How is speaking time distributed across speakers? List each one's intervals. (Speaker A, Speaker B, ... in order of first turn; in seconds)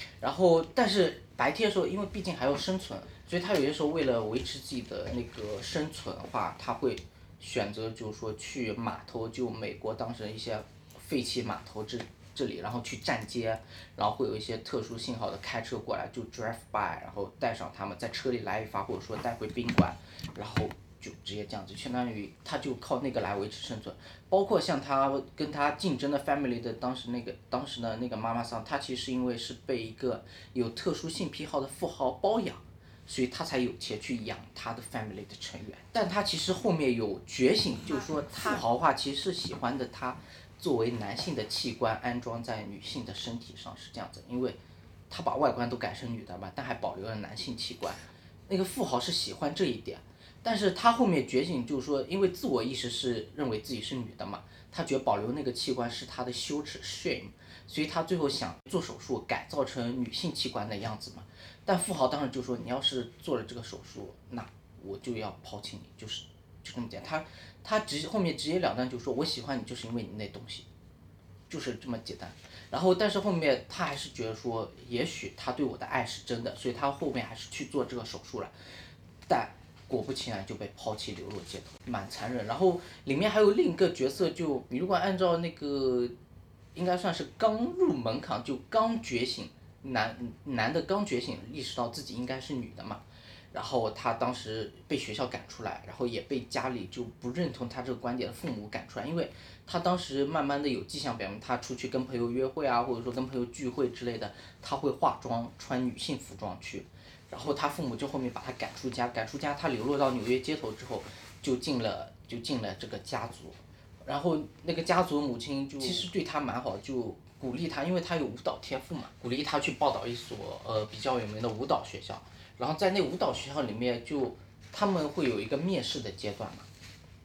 Speaker A: 0.2-44.6, 45.1-70.7, 71.5-78.5, 79.3-86.2, 86.7-126.7